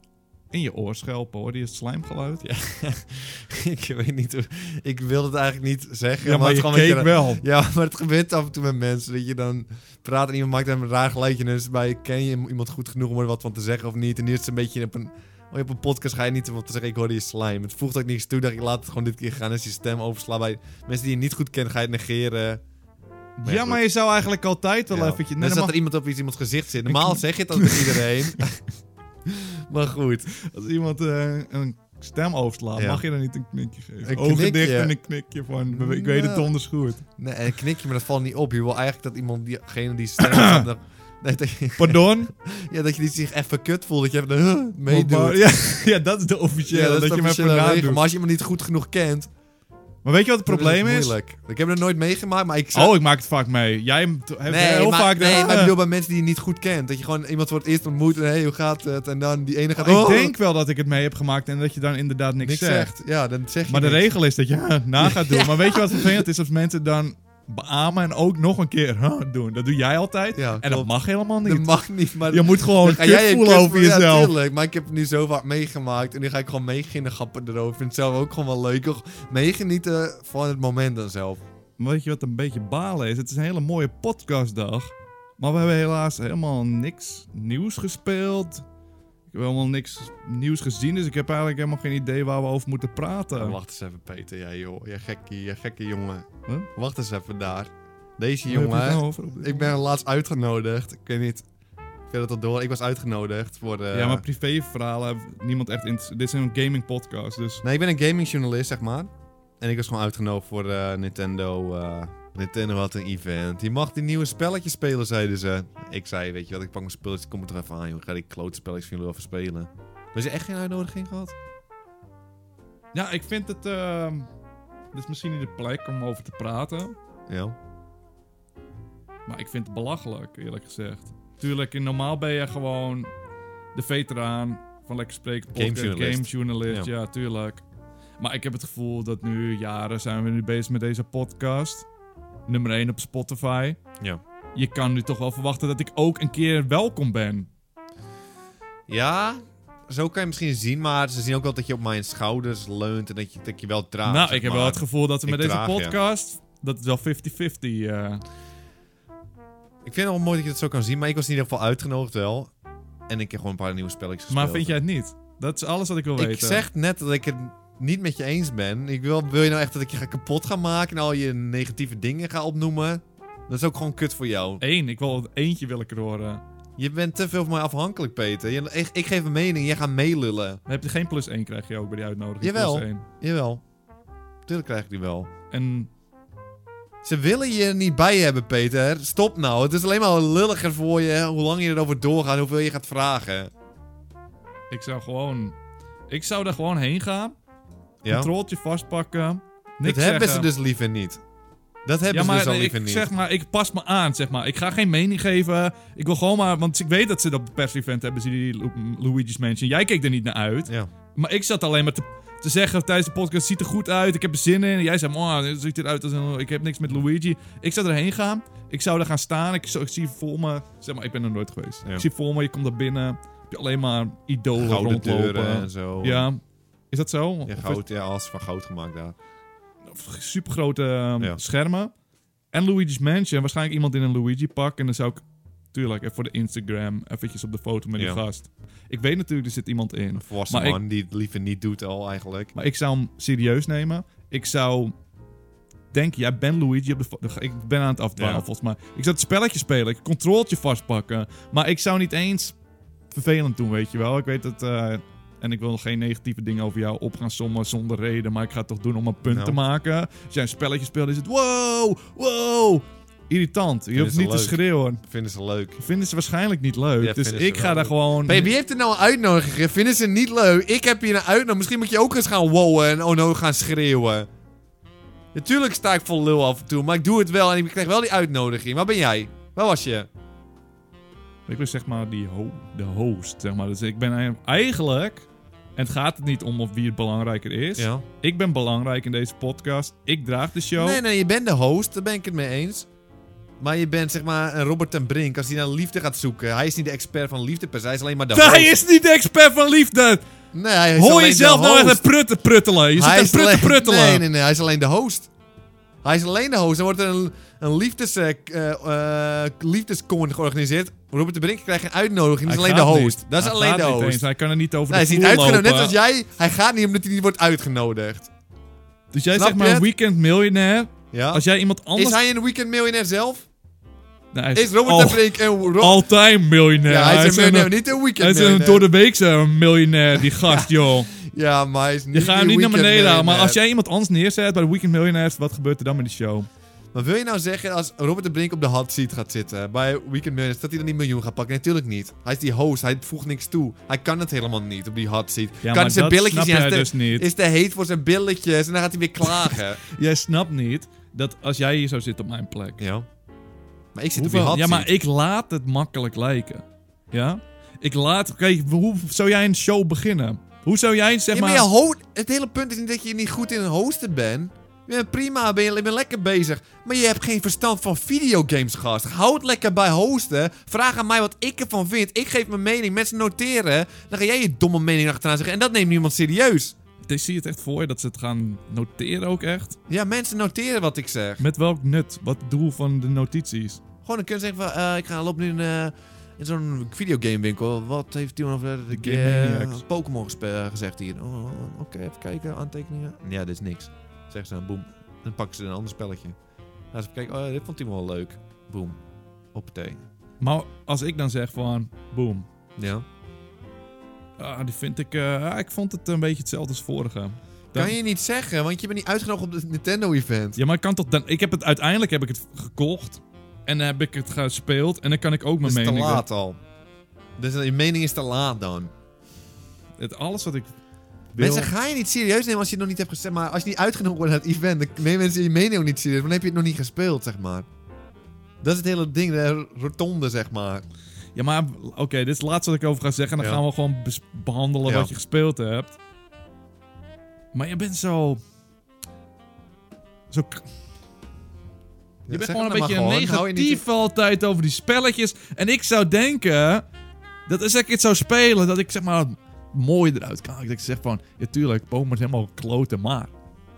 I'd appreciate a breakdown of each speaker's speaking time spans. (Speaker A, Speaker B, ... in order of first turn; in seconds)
Speaker A: 0.5-2.4, 6.2-7.4, 23.4-25.7, 26.9-28.4, 30.3-37.0, 40.2-40.6, 41.8-42.3, 44.9-48.0, 50.0-51.1, 52.7-55.7, 59.8-62.9, 63.7-71.7, 72.3-74.3, 81.8-88.6, 89.3-93.6, 98.5-99.7, 103.9-107.6, 122.9-124.3, 124.9-126.9, 129.3-133.1, 133.7-137.6, 138.2-141.8, 142.5-143.8, 144.5-147.5, 154.1-158.2, 164.3-166.7, 174.6-176.4, 180.7-183.0, 185.5-185.9, 194.7-195.6, 196.1-197.3, 198.1-200.5, 202.1-226.4, 226.9-227.8, 229.9-231.9, 232.5-240.8, 242.5-244.9, 245.9-252.6, 253.1-265.0, 265.8-268.5, 281.5-291.0, 298.3-300.2, 300.9-304.2, 312.4-315.9, 319.1-322.2, 324.3-331.1, 332.1-336.5, 345.6-347.2, 349.4-352.8, 354.1-361.7, 377.1-379.8, 381.4-383.8, 388.9-389.8, 400.4-402.5, 404.4-407.9, 410.6-416.2, 420.0-420.7, 421.3-421.7, 431.4-436.0, 437.5-438.4, 440.3-440.6, 442.3-446.9, 447.5-453.3
Speaker B: 2.4-22.6, 23.4-23.8, 24.9-28.6, 29.2-30.3, 32.8-33.0, 34.0-34.9, 35.7-36.5, 37.0-45.4, 46.7-49.3, 50.5-52.9, 54.5-60.3, 62.4-64.1, 65.0-66.2, 70.3-70.9, 71.4-81.4, 93.3-101.4, 102.1-104.2, 107.6-121.3, 127.3-127.5, 135.5-136.9, 148.9-155.9, 159.8-162.5, 163.1-164.8, 166.2-174.6, 176.8-180.6, 182.4-183.6, 184.5-185.3, 187.0-193.5, 198.0-198.3, 199.8-201.2, 201.8-203.1, 224.5-226.3, 227.4-229.2, 238.0-238.2, 240.2-242.5, 248.2-248.4, 259.2-259.6, 263.9-265.8, 267.0-274.3, 275.3-280.1, 287.8-288.0, 290.8-292.9, 293.6-298.7, 300.5-302.0, 302.9-305.3, 306.0-314.2, 314.9-318.3, 319.4-319.9, 321.1-321.4, 321.9-323.5, 324.5-326.0, 326.8-328.9, 330.1-333.6, 336.9-349.8, 352.8-353.1, 353.9-354.9, 361.3-376.7, 379.9-381.4, 384.0-396.4, 396.9-399.0, 399.5-400.0, 402.8-403.0, 407.7-410.6, 415.6-416.6, 417.4-418.9, 421.4-427.7, 428.6-430.8, 434.9-435.1, 442.3-443.8